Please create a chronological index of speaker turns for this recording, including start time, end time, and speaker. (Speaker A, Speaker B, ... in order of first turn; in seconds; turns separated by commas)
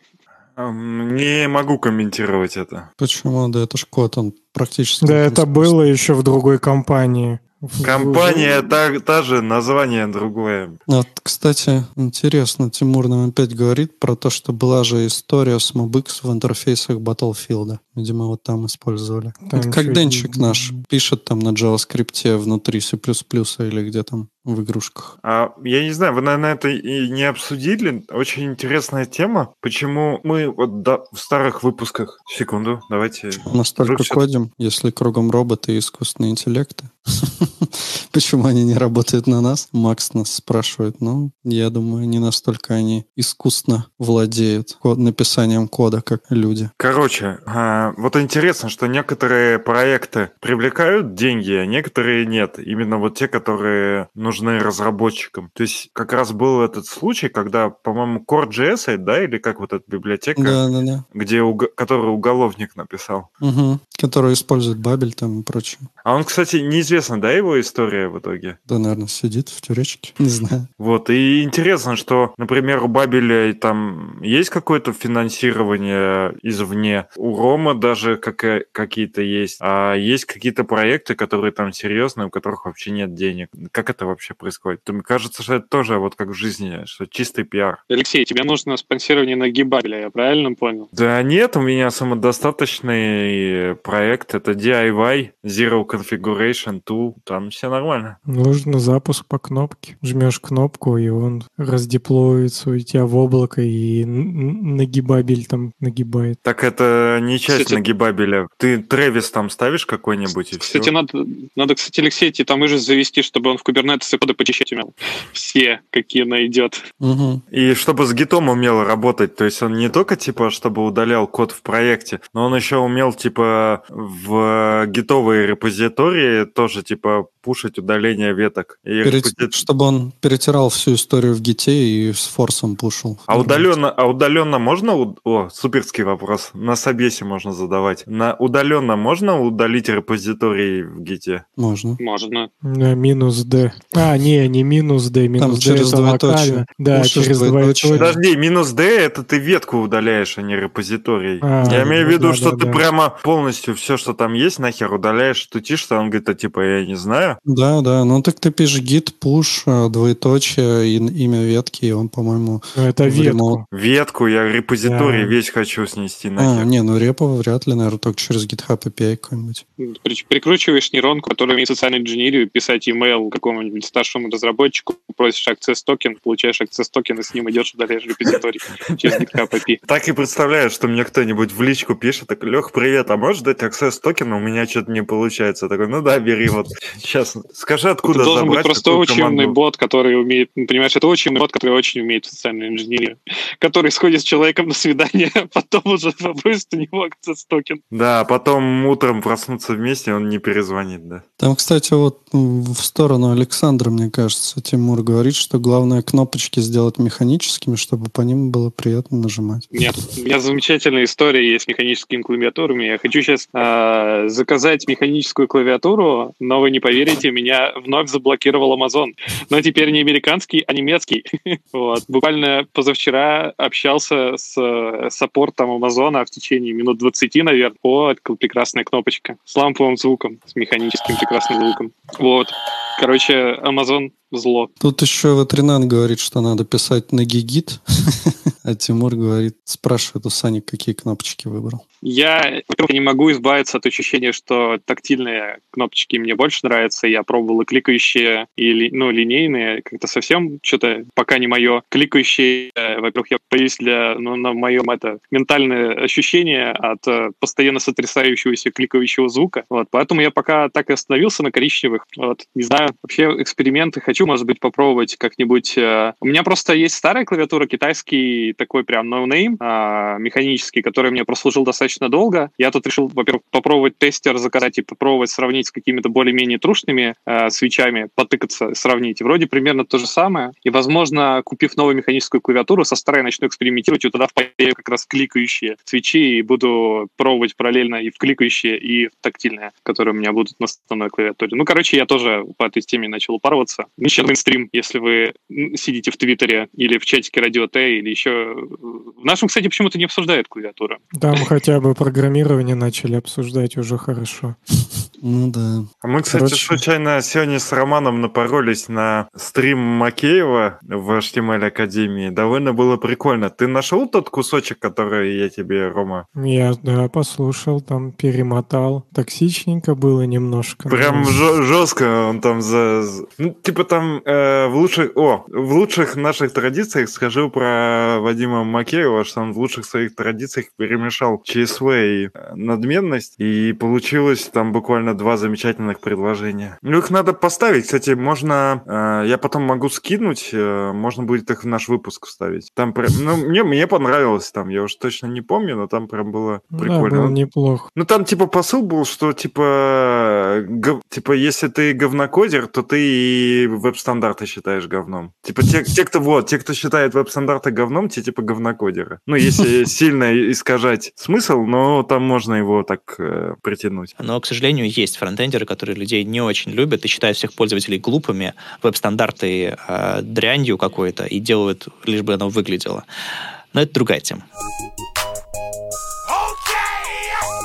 Speaker A: 0.6-2.9, Speaker B: 3.0-5.8, Speaker C: 5.0-8.7, Speaker A: 7.8-10.8, Speaker B: 10.9-25.1, Speaker C: 19.4-20.8, Speaker A: 25.2-34.2, Speaker B: 33.4-46.7, Speaker A: 46.8-60.6, Speaker B: 60.4-61.0, Speaker A: 61.1-63.3, Speaker B: 63.4-65.9, Speaker A: 66.0-68.6, Speaker B: 68.7-70.7, Speaker A: 70.8-87.8, Speaker D: 87.9-90.9, Speaker A: 90.9-98.2, Speaker C: 98.3-106.4, Speaker A: 106.4-110.9, Speaker D: 107.5-107.8, Speaker D: 110.6-116.8, Speaker B: 117.0-117.4, Speaker A: 117.5-129.6, Speaker B: 129.0-133.5, Speaker A: 133.3-141.4, Speaker C: 133.3-133.7, Speaker B: 141.6-142.0, Speaker D: 142.0-142.5, Speaker C: 142.6-148.1, Speaker B: 145.4-148.2, Speaker A: 147.9-157.4, Speaker C: 151.4-152.8, Speaker B: 151.6-152.0, Speaker B: 157.4-163.6, Speaker C: 162.8-163.6, Speaker A: 163.7-166.7, Speaker C: 164.8-165.3, Speaker B: 166.4-169.6, Speaker D: 169.8-179.8, Speaker A: 179.0-179.3, Speaker A: 179.8-189.6, Speaker D: 188.1-197.8, Speaker A: 197.9-201.2, Speaker B: 201.4-209.7, Speaker D: 209.7-234.7, Speaker B: 234.8-241.8, Speaker D: 242.0-301.4, Speaker C: 301.1-304.6, Speaker B: 305.2-305.9, Speaker A: 306.0-316.2, Speaker C: 306.3-306.8, Speaker C: 316.4-321.3, Speaker A: 320.9-347.4, Speaker C: 346.7-347.9, Speaker A: 347.9-364.1, Speaker E: 364.2-373.1, Speaker E: 373.7-374.4